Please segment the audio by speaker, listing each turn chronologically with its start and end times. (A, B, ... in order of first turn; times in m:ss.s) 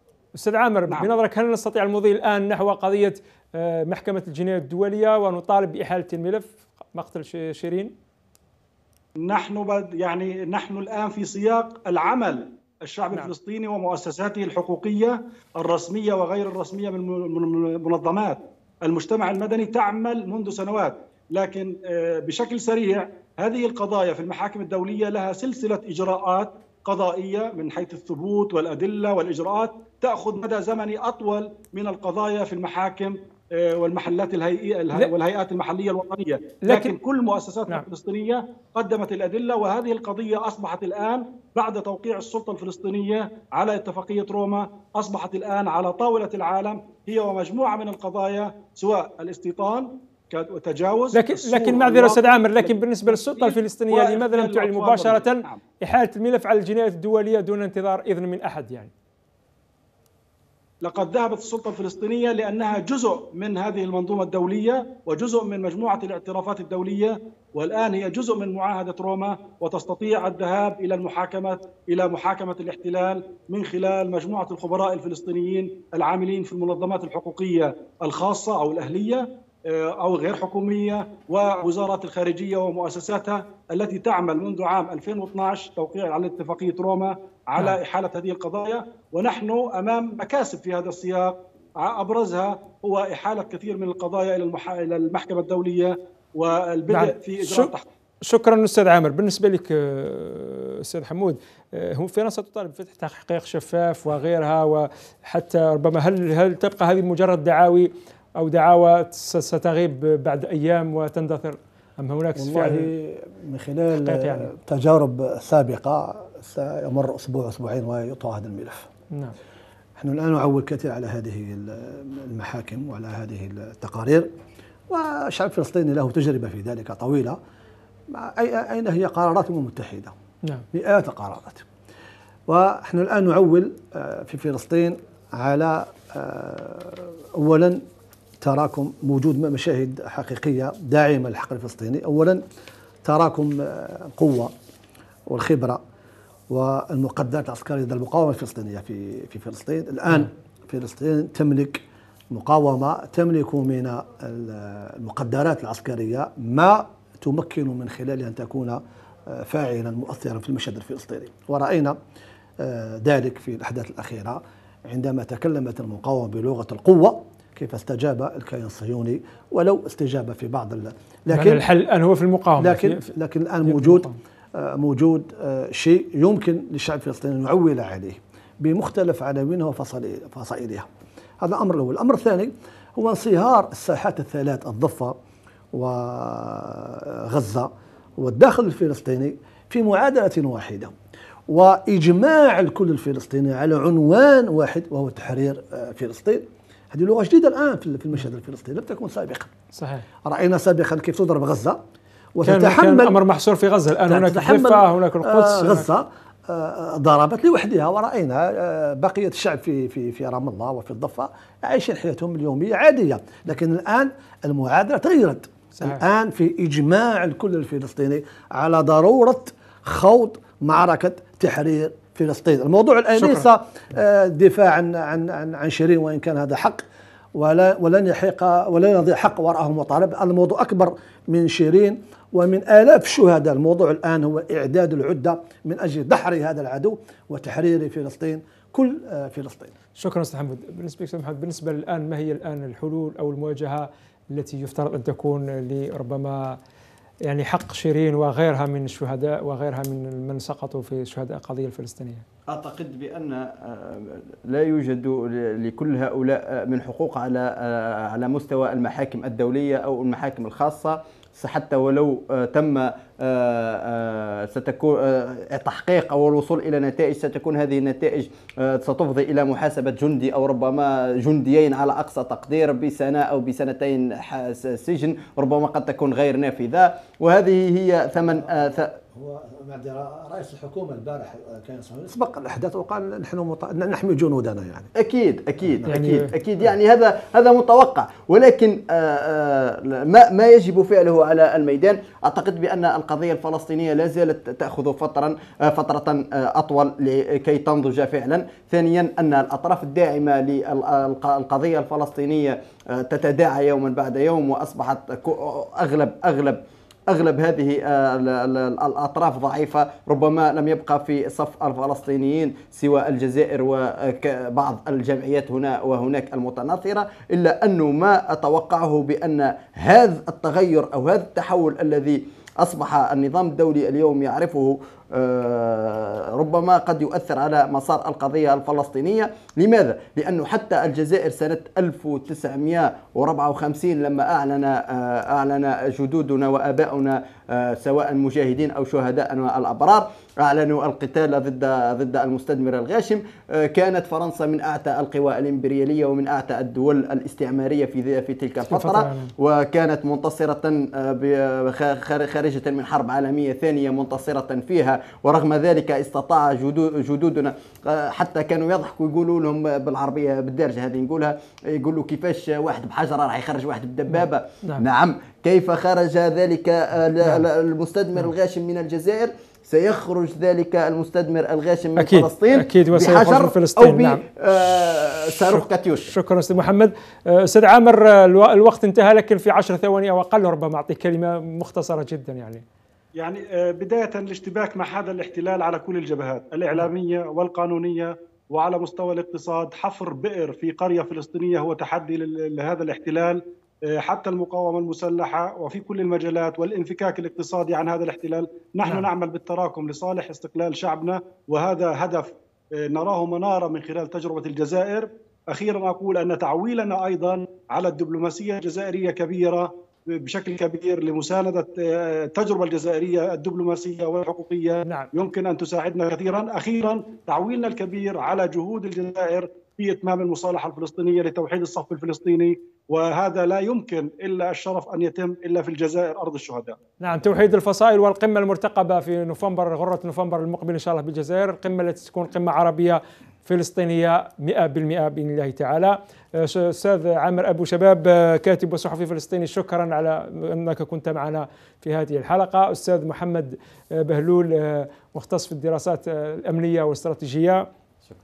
0:00.4-0:07.9 A
0:09.2-0:55.6 B
0:36.6-0:36.9 A
0:51.1-0:58.9 A
1:00.8-1:37.9 B
1:36.9-1:37.7 A
1:38.2-1:52.9 A
1:52.4-1:58.9 C
1:54.0-1:54.5 A
2:00.0-2:04.3 C
2:04.9-2:07.4 C
2:08.1-2:10.1 C
2:10.7-2:11.6 C
2:12.5-2:17.8 C
2:18.4-2:22.4 C
2:23.0-2:24.5 C
2:25.3-2:25.8 C
2:26.5-2:42.0 C
2:42.6-2:51.6 C
2:51.3-2:53.1 A
2:52.6-3:00.9 C
2:53.6-2:54.2 A
3:01.4-3:05.1 C
3:05.7-3:10.9 C
3:11.5-3:19.5 C
3:19.7-3:20.0 A
3:20.2-3:21.8 C
3:22.3-3:23.2 C
3:22.4-3:25.9 A
3:24.1-3:46.8 C
3:35.8-3:36.0 A
3:43.2-3:43.5 A
3:47.3-3:59.7 C
4:00.0-4:06.6 A
4:07.2-4:12.2 A
4:12.5-4:38.9 D
4:38.2-4:44.9 C
4:45.0-6:16.1 D
4:45.6-4:45.9 C
4:45.9-4:46.3 A
5:48.7-5:49.3 A
6:04.1-6:04.8 A
6:12.0-6:14.2 A
6:15.4-6:22.6 A
6:23.2-7:06.8 B
6:54.8-6:55.1 A
7:07.0-7:27.6 A